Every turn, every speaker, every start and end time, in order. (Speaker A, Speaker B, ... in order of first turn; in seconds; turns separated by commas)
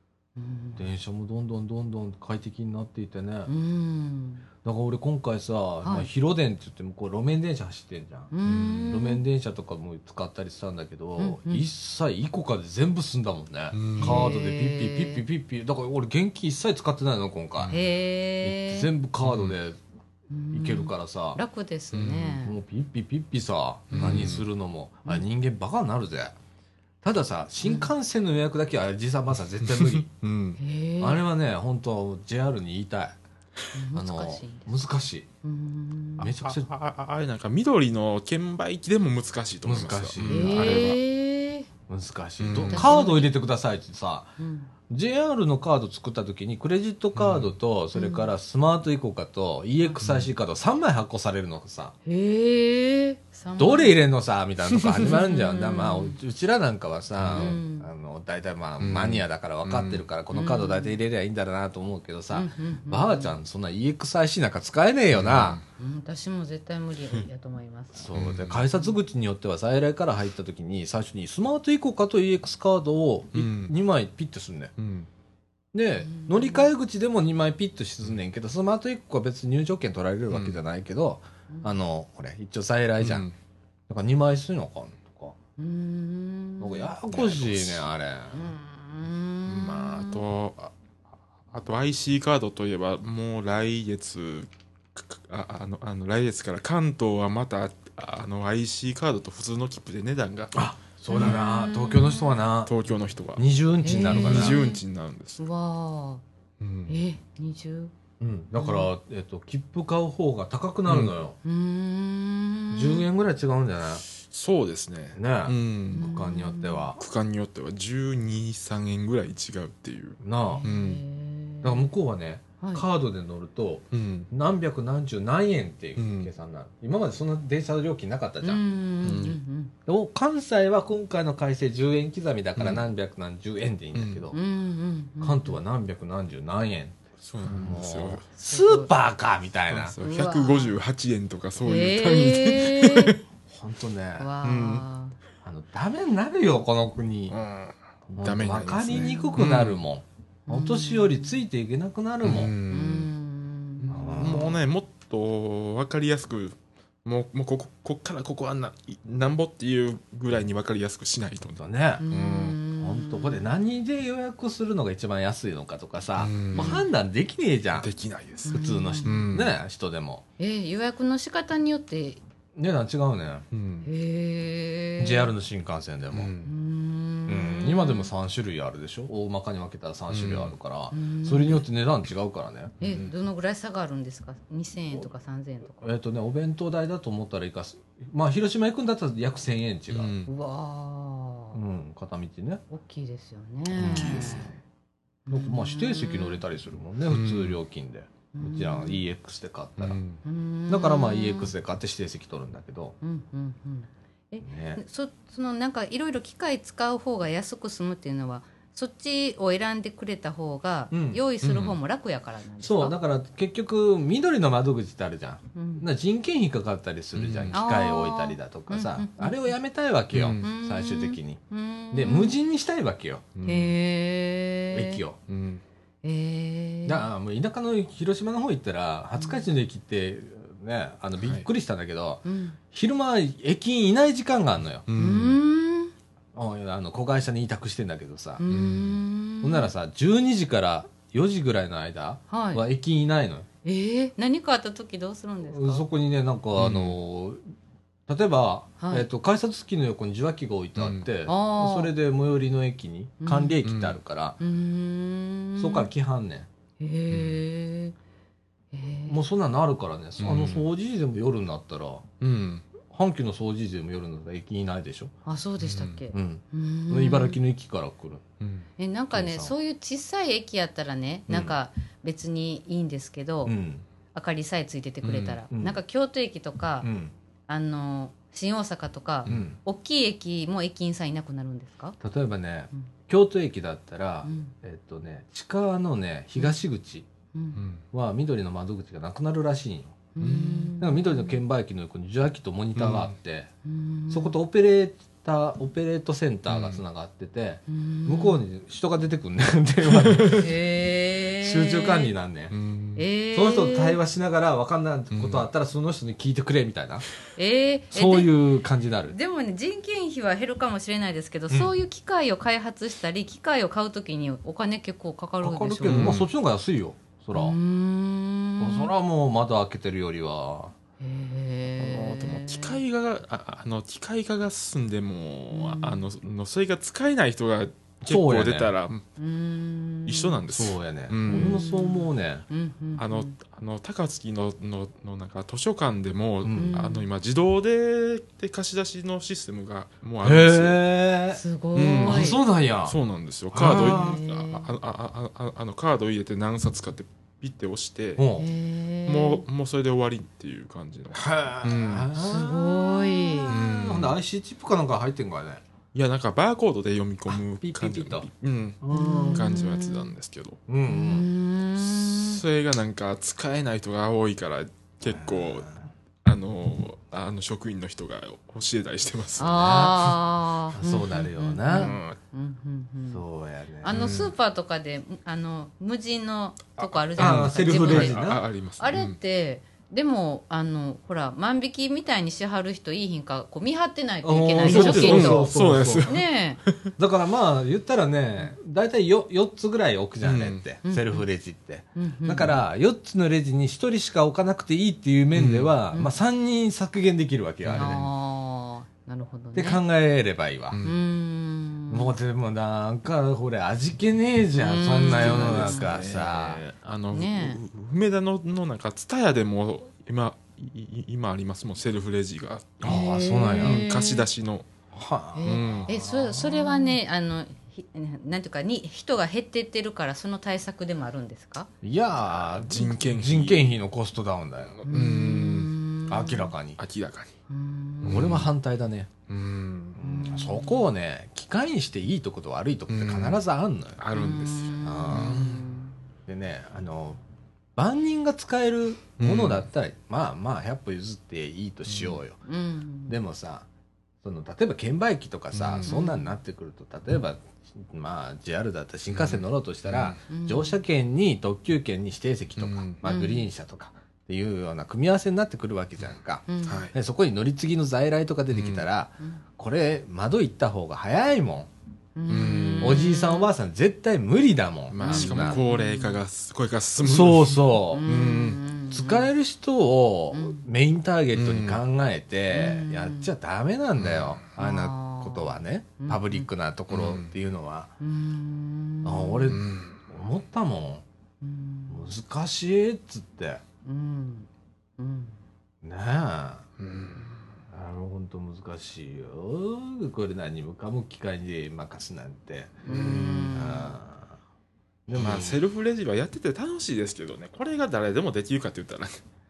Speaker A: 0.3-0.8, Speaker B: 0.8-3.5, Speaker A: 3.5-4.5, Speaker B: 4.6-8.3, Speaker A: 5.8-6.1, Speaker A: 8.3-9.2, Speaker C: 8.4-8.9, Speaker B: 8.9-17.7, Speaker A: 11.2-11.7, Speaker C: 13.7-14.3, Speaker A: 14.0-15.2, Speaker C: 17.6-17.8, Speaker A: 17.7-18.9, Speaker B: 18.4-19.8, Speaker C: 19.2-19.5, Speaker A: 20.3-22.6, Speaker B: 20.5-21.4, Speaker C: 21.9-22.4, Speaker B: 22.4-26.3, Speaker C: 23.9-24.4, Speaker A: 24.0-24.3, Speaker B: 27.0-30.1, Speaker A: 27.6-27.9, Speaker C: 29.6-30.6, Speaker A: 30.6-31.2, Speaker B: 31.0-33.2, Speaker A: 33.7-34.7, Speaker B: 33.9-35.3, Speaker A: 35.4-36.3, Speaker B: 36.2-36.7, Speaker C: 36.2-41.0, Speaker B: 39.6-40.9, Speaker A: 40.2-41.7, Speaker B: 41.9-44.3, Speaker C: 42.4-43.0, Speaker A: 42.7-43.3, Speaker A: 44.4-44.7, Speaker B: 44.9-51.9, Speaker C: 47.1-47.5, Speaker A: 47.9-48.3, Speaker C: 50.0-50.3, Speaker A: 52.0-54.0, Speaker B: 53.6-65.6, Speaker A: 55.0-56.2, Speaker C: 57.2-57.6, Speaker A: 57.3-57.9, Speaker C: 58.8-60.0, Speaker A: 60.3-61.0, Speaker A: 62.3-63.3, Speaker C: 65.1-65.6, Speaker A: 65.8-68.1, Speaker B: 67.9-74.7, Speaker C: 68.1-68.6, Speaker C: 73.3-73.7, Speaker C: 74.8-75.1, Speaker B: 75.7-83.2, Speaker A: 76.0-76.7, Speaker C: 80.3-80.6, Speaker C: 83.0-83.3, Speaker B: 83.9-85.3, Speaker A: 85.6-86.9, Speaker B: 86.6-88.4, Speaker C: 87.1-87.9, Speaker A: 88.3-90.2, Speaker C: 89.5-90.7, Speaker C: 91.5-100.6, Speaker B: 100.5-102.7, Speaker A: 101.1-102.4, Speaker C: 101.1-101.4, Speaker C: 102.6-105.4, Speaker B: 103.3-104.6, Speaker A: 103.8-104.8, Speaker A: 105.4-106.2, Speaker C: 106.6-107.0, Speaker A: 106.9-107.9, Speaker B: 108.2-111.3, Speaker A: 108.5-108.9, Speaker C: 110.9-111.1, Speaker A: 111.4-113.0, Speaker B: 112.7-114.0, Speaker C: 114.2-116.1, Speaker B: 115.1-117.0, Speaker A: 115.9-116.9, Speaker C: 117.0-121.0, Speaker B: 120.2-120.6, Speaker A: 120.5-121.9, Speaker B: 121.6-128.6, Speaker C: 123.9-124.3, Speaker C: 126.0-126.3, Speaker A: 128.4-129.7, Speaker C: 129.0-129.4, Speaker B: 129.8-134.4, Speaker C: 132.6-132.8, Speaker C: 133.9-134.2, Speaker A: 134.3-135.6, Speaker B: 135.2-140.0, Speaker C: 137.2-138.2, Speaker A: 138.4-138.9, Speaker C: 139.7-143.2, Speaker A: 140.0-140.8, Speaker A: 141.6-143.2, Speaker B: 143.5-144.3, Speaker A: 144.2-145.1, Speaker C: 144.4-144.8, Speaker B: 145.4-147.3, Speaker C: 147.3-149.8, Speaker B: 148.1-152.5, Speaker A: 148.9-149.5, Speaker A: 150.5-151.4, Speaker C: 152.2-153.1, Speaker A: 152.7-154.5, Speaker C: 153.8-162.6, Speaker B: 153.9-154.6, Speaker B: 161.6-162.0, Speaker A: 162.0-163.5, Speaker B: 162.8-167.9, Speaker C: 166.2-166.8, Speaker A: 166.5-166.9, Speaker C: 167.7-169.6, Speaker A: 168.4-169.2, Speaker B: 168.5-170.2, Speaker A: 170.4-172.2, Speaker B: 172.6-173.4, Speaker C: 173.5-173.9, Speaker A: 173.8-175.3, Speaker B: 175.0-176.3, Speaker C: 176.1-176.5, Speaker A: 176.4-178.1, Speaker B: 177.3-182.8, Speaker C: 180.1-180.5, Speaker A: 180.9-181.6, Speaker A: 182.8-185.8, Speaker C: 182.8-183.1, Speaker B: 185.8-190.1, Speaker C: 189.9-190.3, Speaker A: 190.3-191.6, Speaker B: 191.5-192.6, Speaker A: 192.7-194.5, Speaker C: 193.7-194.5, Speaker B: 193.8-194.5, Speaker A: 195.3-196.4, Speaker B: 195.3-200.0, Speaker C: 197.1-197.6, Speaker A: 198.3-199.0, Speaker C: 199.8-200.2, Speaker A: 200.2-201.5, Speaker B: 200.7-202.9, Speaker A: 203.0-212.9, Speaker B: 204.4-204.8, Speaker B: 210.9-211.2, Speaker C: 211.4-211.8, Speaker B: 212.6-221.4, Speaker A: 215.5-215.9, Speaker C: 217.1-217.6, Speaker A: 217.5-219.5, Speaker C: 220.1-220.5, Speaker A: 220.4-222.3, Speaker B: 221.9-223.2, Speaker C: 223.3-223.8, Speaker A: 223.4-225.0, Speaker B: 224.7-225.2, Speaker C: 225.3-225.6, Speaker A: 226.0-227.1, Speaker B: 226.8-234.8, Speaker A: 229.2-229.4, Speaker C: 231.2-231.4, Speaker A: 232.2-232.6, Speaker C: 234.9-235.4, Speaker A: 234.9-235.9, Speaker B: 236.3-238.4, Speaker A: 238.4-239.7, Speaker C: 238.5-239.0, Speaker B: 239.4-243.4, Speaker A: 242.3-242.6, Speaker A: 243.6-245.8, Speaker B: 245.5-247.4, Speaker C: 246.6-247.0, Speaker B: 248.1-254.4, Speaker A: 248.8-249.1, Speaker C: 250.8-251.1, Speaker A: 251.3-251.9, Speaker A: 253.2-253.6, Speaker C: 253.6-254.0, Speaker A: 254.4-255.9, Speaker B: 255.6-256.5, Speaker A: 256.8-257.9, Speaker C: 257.1-257.4, Speaker A: 258.7-259.2, Speaker B: 259.1-262.0, Speaker C: 260.2-260.6, Speaker C: 262.2-262.6, Speaker B: 262.9-265.1, Speaker A: 265.2-267.4, Speaker C: 265.6-266.0, Speaker B: 266.1-268.2, Speaker C: 268.4-268.7, Speaker A: 268.8-273.5, Speaker B: 269.1-269.5, Speaker B: 273.4-273.8, Speaker A: 274.1-276.9, Speaker C: 275.0-275.4, Speaker B: 275.5-275.8, Speaker B: 276.8-277.1, Speaker A: 277.5-282.0, Speaker B: 279.3-279.6, Speaker B: 282.0-287.1, Speaker A: 284.2-284.5, Speaker A: 287.3-287.6, Speaker C: 287.5-287.8, Speaker B: 287.9-290.0, Speaker A: 290.1-291.4, Speaker C: 290.2-290.8, Speaker B: 290.8-293.5, Speaker C: 292.8-293.1, Speaker A: 293.6-294.3, Speaker B: 294.1-300.5, Speaker C: 296.5-296.8, Speaker A: 297.7-298.4, Speaker C: 299.9-300.4, Speaker A: 300.3-302.1, Speaker B: 301.4-302.5, Speaker C: 302.5-303.0, Speaker A: 302.9-304.0, Speaker B: 303.3-307.0, Speaker C: 305.1-305.5, Speaker A: 307.4-308.4, Speaker B: 307.9-309.1, Speaker A: 309.1-316.3, Speaker B: 315.4-317.6, Speaker C: 315.8-316.3, Speaker A: 317.3-318.9, Speaker B: 318.6-320.7, Speaker A: 321.0-322.8, Speaker C: 321.8-329.0, Speaker A: 325.5-326.0, Speaker B: 328.0-328.7, Speaker A: 329.2-330.4, Speaker C: 330.1-331.6, Speaker B: 330.5-332.4, Speaker A: 331.2-333.3, Speaker C: 333.0-340.8, Speaker B: 336.4-336.8, Speaker A: 336.5-337.1, Speaker B: 340.2-341.4, Speaker A: 341.3-342.4, Speaker C: 341.7-348.2, Speaker B: 342.0-342.9, Speaker B: 343.5-344.2, Speaker A: 343.6-344.7, Speaker B: 348.2-348.5, Speaker A: 348.4-349.4, Speaker C: 349.1-352.1, Speaker B: 351.1-355.6, Speaker A: 352.1-353.6, Speaker C: 353.4-354.1, Speaker C: 355.9-360.6, Speaker B: 357.3-358.3, Speaker B: 358.8-359.5, Speaker A: 358.9-360.1, Speaker B: 360.7-361.3, Speaker A: 360.9-362.4, Speaker C: 361.8-365.7, Speaker B: 365.1-365.8, Speaker C: 366.2-370.0, Speaker A: 369.4-373.2, Speaker B: 369.6-370.1, Speaker B: 370.7-372.0, Speaker C: 371.7-372.2, Speaker B: 373.1-373.9, Speaker A: 373.8-385.5, Speaker C: 373.9-374.3, Speaker C: 376.8-379.2, Speaker B: 377.2-378.4, Speaker B: 384.2-386.1, Speaker C: 384.6-386.9, Speaker A: 386.0-386.6, Speaker B: 387.0-398.1, Speaker C: 390.2-390.6, Speaker A: 390.8-391.2, Speaker A: 391.9-392.6, Speaker C: 395.3-395.7, Speaker C: 397.6-398.0, Speaker A: 397.8-399.8, Speaker B: 399.5-400.8, Speaker C: 400.7-401.0, Speaker A: 400.8-402.1, Speaker B: 401.9-406.6, Speaker A: 404.6-406.0, Speaker C: 404.9-414.7, Speaker A: 407.1-407.6, Speaker B: 412.8-413.9, Speaker A: 412.9-414.3, Speaker B: 414.9-416.9, Speaker A: 415.4-421.7, Speaker C: 415.4-415.9, Speaker B: 421.8-424.8, Speaker C: 422.2-423.8, Speaker C: 424.7-425.7, Speaker A: 424.9-426.5, Speaker B: 426.1-426.8, Speaker C: 426.8-427.3, Speaker A: 427.5-428.4, Speaker C: 428.0-428.5, Speaker B: 428.0-429.1, Speaker C: 429.3-430.0, Speaker B: 430.0-434.0, Speaker A: 430.0-430.9, Speaker C: 432.9-433.4, Speaker C: 434.0-435.8, Speaker A: 434.1-435.9, Speaker B: 434.8-435.4, Speaker B: 436.3-437.2, Speaker B: 437.8-442.4, Speaker C: 439.2-439.6, Speaker C: 441.9-442.2, Speaker A: 442.4-443.2, Speaker B: 443.1-443.6, Speaker B: 444.2-461.7, Speaker C: 445.5-445.9, Speaker A: 445.9-446.3, Speaker C: 449.1-450.2, Speaker A: 450.3-450.8, Speaker C: 452.6-453.0, Speaker A: 453.0-453.5, Speaker A: 456.5-456.9, Speaker C: 456.6-456.9, Speaker C: 458.5-458.9, Speaker A: 462.1-463.5, Speaker C: 462.3-463.0, Speaker B: 462.8-465.6, Speaker C: 464.9-468.6, Speaker A: 465.0-466.2, Speaker B: 467.0-468.1, Speaker A: 467.9-469.3, Speaker B: 468.9-477.9, Speaker A: 470.3-470.6, Speaker C: 471.3-471.8, Speaker A: 472.5-473.3, Speaker C: 474.0-474.4, Speaker A: 474.6-476.5, Speaker C: 476.9-477.3, Speaker A: 478.0-479.6, Speaker B: 479.0-481.0, Speaker C: 479.5-480.0, Speaker A: 481.4-482.1, Speaker B: 481.9-483.6, Speaker A: 483.8-485.4, Speaker B: 485.8-486.6, Speaker C: 486.8-487.4, Speaker B: 487.7-492.8, Speaker A: 492.8-493.9, Speaker C: 492.9-493.6, Speaker B: 493.5-494.3, Speaker B: 495.1-495.6, Speaker C: 495.2-499.2